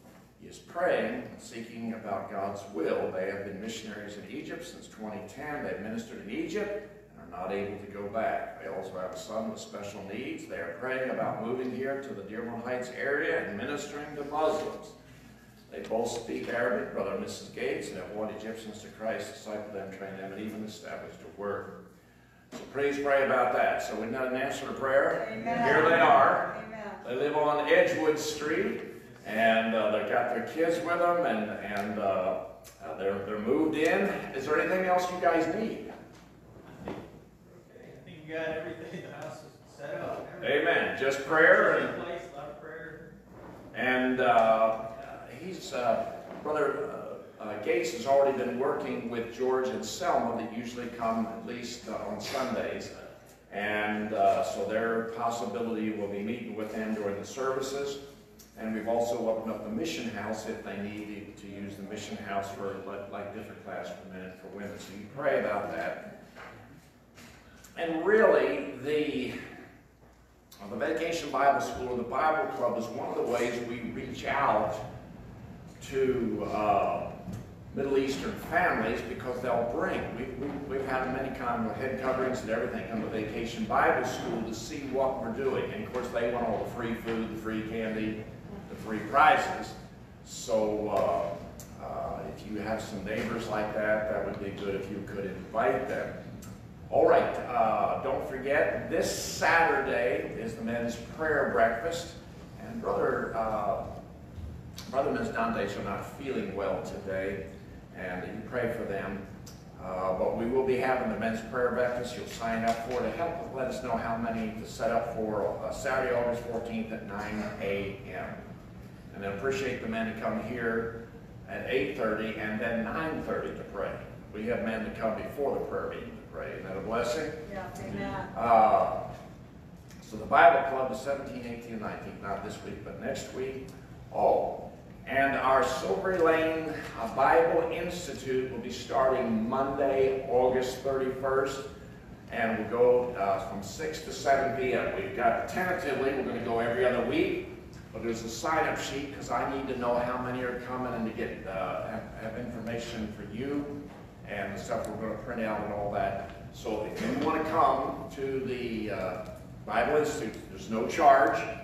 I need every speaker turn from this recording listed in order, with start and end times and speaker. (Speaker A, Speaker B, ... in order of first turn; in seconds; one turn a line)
Speaker A: 0.4-14.9
Speaker A: 15.7-21.8
Speaker A: 22.5-26.5
Speaker B: 25.1-27.0
Speaker A: 27.0-35.9
Speaker C: 36.8-40.6
Speaker A: 40.4-42.0
Speaker C: 41.2-43.1
Speaker A: 43.7-52.9
Speaker A: 53.5-58.0
Speaker A: 58.6-66.0
Speaker A: 67.8-69.3
Speaker A: 70.6-74.8
Speaker A: 75.8-77.1
Speaker A: 77.7-96.2
Speaker A: 96.9-103.8
Speaker A: 104.9-107.4
Speaker A: 107.9-109.2
Speaker A: 109.8-118.4
Speaker A: 119.1-120.9
Speaker A: 121.5-127.4
Speaker B: 127.4-128.3
Speaker A: 128.3-129.0
Speaker A: 130.0-141.7
Speaker A: 142.3-161.5